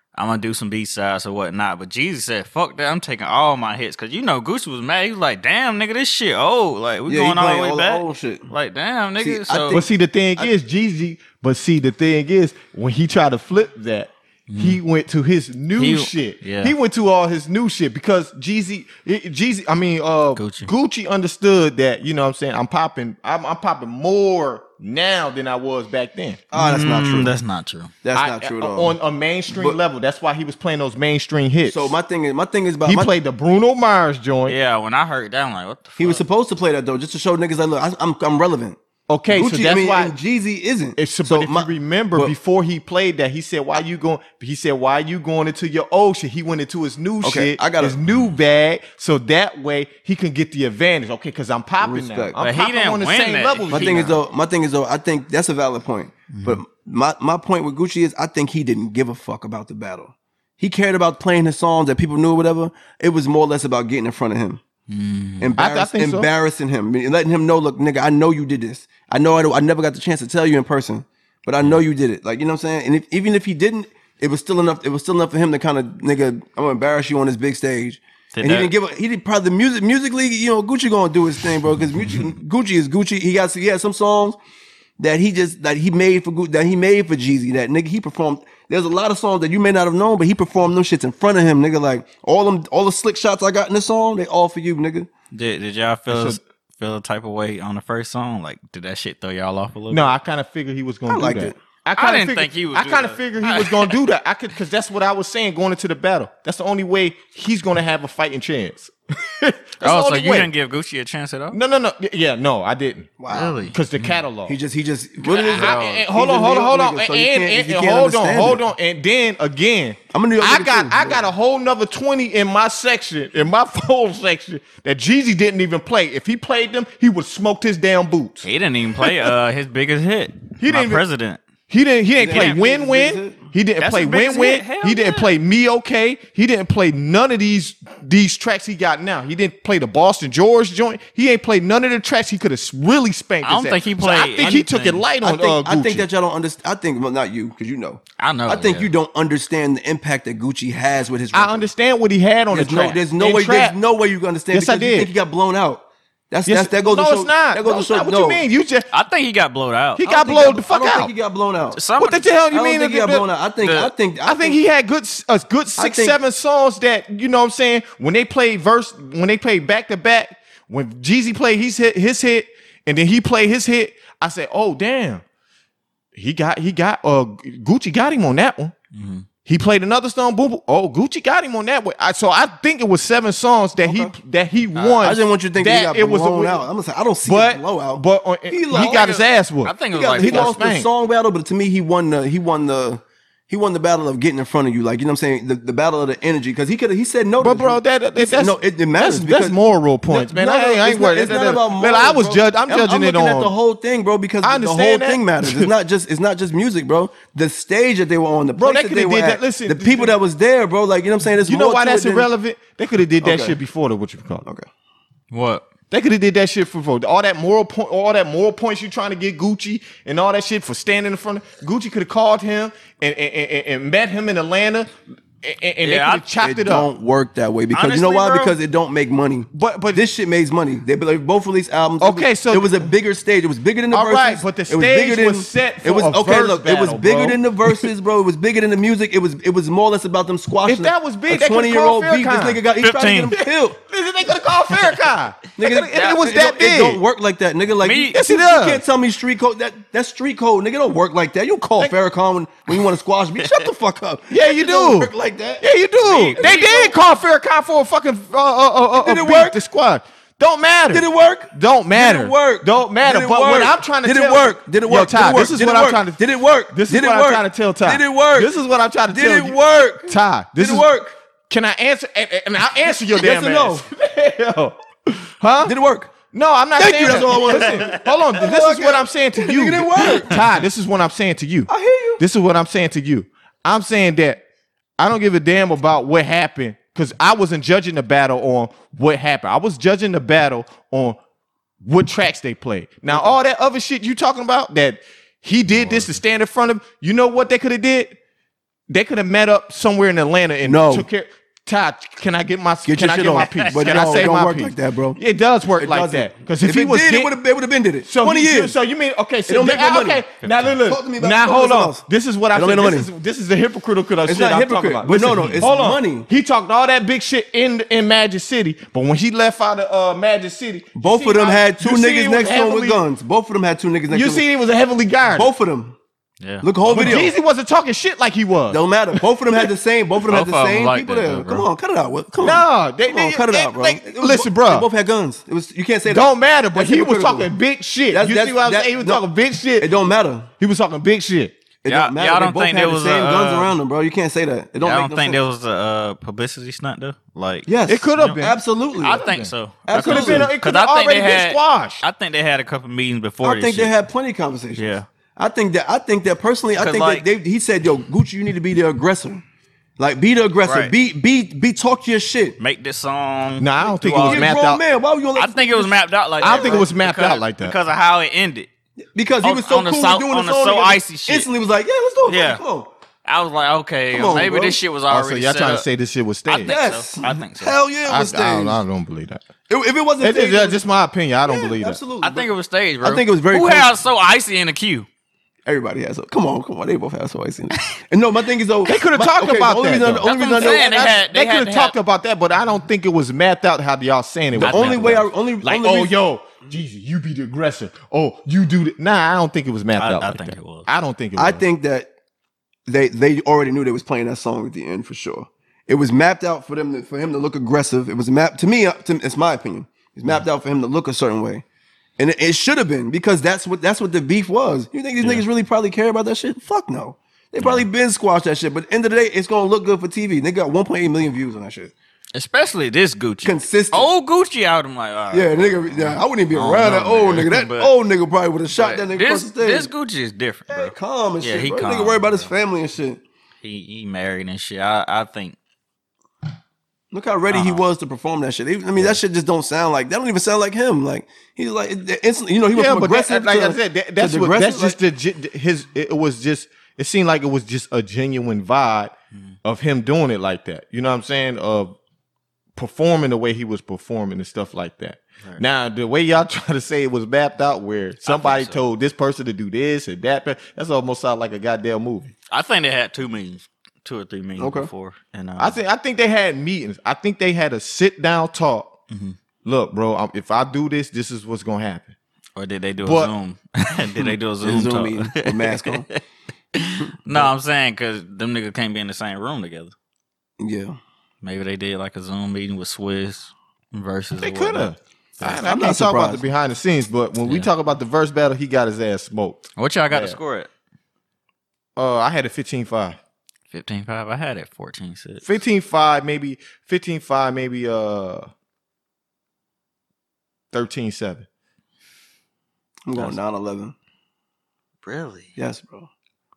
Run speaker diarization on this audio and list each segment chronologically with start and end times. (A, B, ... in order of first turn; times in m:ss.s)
0:00.2-0:09.8 A
0:07.1-0:08.5 B
0:09.2-0:10.5 B
0:09.7-0:26.4 C
0:14.5-0:14.8 A
0:15.8-0:16.7 A
0:20.4-0:20.7 A
0:26.5-0:27.4 B
0:26.5-0:27.9 A
0:28.0-0:29.0 B
0:28.1-0:32.0 C
0:29.5-0:29.8 B
0:31.7-0:33.1 B
0:32.8-0:34.6 C
0:34.5-0:36.2 A
0:36.0-0:38.8 B
0:39.1-0:40.1 C
0:39.3-0:42.3 B
0:41.0-0:54.2 C
0:47.2-0:48.0 B
0:48.1-0:48.4 A
0:51.8-0:52.4 B
0:52.4-0:54.2 A
0:53.7-1:04.6 B
0:56.3-0:56.6 A
1:04.9-1:05.6 A
1:05.4-1:24.4 B
1:05.6-1:06.3 C
1:18.3-1:18.7 A
1:25.0-1:35.1 B
1:35.3-1:40.1 A
1:36.1-1:36.4 C
1:39.9-1:50.5 C
1:41.1-1:41.6 B
1:42.0-1:44.0 A
1:49.8-1:51.6 A
1:51.5-1:53.1 C
1:53.2-1:53.7 B
1:53.3-1:54.2 A
1:53.7-1:54.6 C
1:54.5-1:58.6 B
1:55.2-1:56.0 A
1:55.5-2:08.5 C
2:00.1-2:01.2 B
2:08.4-2:11.4 A
2:10.6-2:11.0 C
2:11.7-2:26.1 C
2:12.2-2:13.4 B
2:12.3-2:12.6 A
2:13.8-2:15.3 A
2:23.4-2:25.1 A
2:25.2-2:31.7 B
2:28.2-2:28.9 A
2:31.3-2:33.8 C
2:32.5-2:38.4 B
2:34.5-2:35.1 C
2:36.5-2:38.9 C
2:38.9-2:40.0 A
2:40.0-2:41.1 C
2:40.0-2:41.8 B
2:41.7-2:42.3 A
2:42.0-2:43.2 C
2:42.5-2:44.6 B
2:43.6-2:43.9 A
2:44.2-2:55.2 C
2:45.8-2:46.2 B
2:56.1-2:58.8 C
2:58.9-2:59.2 A
2:59.5-3:06.6 C
3:03.8-3:04.1 B
3:04.8-3:05.1 A
3:05.0-3:09.1 B
3:07.2-3:10.9 C
3:08.7-3:10.6 A
3:09.9-3:19.6 B
3:17.4-3:23.5 C
3:20.1-3:32.3 B
3:24.4-3:25.7 C
3:28.6-3:30.2 C
3:31.5-3:34.5 C
3:33.2-3:33.6 B
3:35.3-3:35.6 A
3:35.9-3:46.9 C
3:45.8-3:46.4 A
3:46.4-4:03.8 B
3:47.7-3:48.6 A
3:49.5-3:50.0 C
3:52.0-3:52.9 C
3:53.9-3:57.9 C
4:00.6-4:02.6 C
4:02.8-4:03.4 A
4:03.4-4:07.0 C
4:05.6-4:15.6 B
4:07.8-4:08.2 A
4:08.1-4:08.8 C
4:13.4-4:13.7 A
4:14.3-4:30.9 C
4:16.0-4:16.8 A
4:16.3-4:17.0 B
4:19.0-4:19.6 B
4:20.9-4:28.6 B
4:29.1-4:31.1 B
4:31.5-4:35.8 C
4:33.1-4:33.9 B
4:35.6-4:36.1 B
4:36.3-4:44.4 C
4:36.8-4:40.4 B
4:37.1-4:38.0 A
4:41.7-4:42.2 B
4:45.0-4:51.2 C
4:51.8-4:58.2 C
4:55.7-4:56.2 A
4:58.9-5:07.4 C
5:00.6-5:01.1 B
5:02.8-5:05.2 B
5:03.4-5:04.3 A
5:05.7-5:08.8 B
5:08.0-5:23.0 C
5:09.5-5:10.2 B
5:10.4-5:10.7 A
5:10.8-5:13.1 B
5:14.2-5:16.3 B
5:15.3-5:15.6 A
5:21.0-5:24.4 B
5:24.1-5:25.5 C
5:25.3-5:26.0 B
5:26.4-5:27.3 A
5:26.6-5:27.3 B
5:26.9-5:28.8 C
5:28.7-5:37.5 B
5:30.3-5:31.7 A
5:32.4-5:34.9 C
5:36.1-5:39.9 C
5:38.1-5:39.2 B
5:39.8-5:40.5 B
5:40.6-5:41.6 C
5:41.8-5:45.4 B
5:41.9-5:43.7 A
5:44.8-5:48.4 A
5:47.7-5:49.2 B
5:47.9-5:52.0 C
5:49.0-5:53.9 A
5:49.9-5:50.5 B
5:53.4-5:59.4 B
5:54.8-5:55.1 A
5:56.8-5:57.2 A
6:00.0-6:02.6 B
6:00.6-6:00.9 A
6:02.6-6:04.6 A
6:03.6-6:04.8 C
6:04.2-6:06.9 B
6:05.4-6:08.7 A
6:06.4-6:07.8 C
6:09.1-6:12.9 B
6:09.4-6:11.5 A
6:12.3-6:12.6 A
6:13.2-6:15.8 A
6:14.1-6:14.8 B
6:15.1-6:16.8 C
6:16.5-6:17.8 A
6:16.6-6:18.8 B
6:18.1-6:19.4 C
6:19.7-6:20.8 B
6:20.2-6:22.0 C
6:21.5-6:22.5 B
6:22.2-6:25.1 A
6:23.0-6:24.0 B
6:25.7-6:31.0 B
6:28.9-6:41.6 C
6:30.2-6:31.9 A
6:34.6-6:36.1 B
6:34.6-6:35.2 A
6:40.0-6:40.9 A
6:41.4-6:42.1 B
6:42.9-6:51.6 B
6:52.2-7:01.9 B
6:57.6-6:57.9 A
7:02.4-7:07.9 A
7:03.4-7:04.1 B
7:05.3-7:09.9 B
7:08.7-7:12.5 A
7:10.7-7:13.2 B
7:13.6-7:15.6 A
7:17.1-7:25.0 B
7:17.5-7:17.8 A
7:22.7-7:29.1 C
7:29.6-7:32.0 C
7:32.8-7:42.3 C
7:38.2-7:38.8 A
7:42.5-7:45.8 A
7:44.6-7:44.9 B
7:45.6-7:49.0 C
7:49.1-7:49.4 A
7:49.6-7:52.1 C
7:52.6-7:56.2 A
7:53.0-7:53.3 C
7:54.6-7:56.1 B
7:56.7-7:59.9 A
8:00.6-8:01.0 B
8:01.4-8:04.9 A
8:04.4-8:10.4 C
8:05.6-8:06.4 B
8:09.8-8:10.7 A
8:12.0-8:13.2 C
8:13.7-8:15.5 A
8:15.4-8:18.5 C
8:20.7-8:21.5 C
8:23.1-8:24.0 B
8:25.0-8:25.6 A
8:25.6-8:26.1 B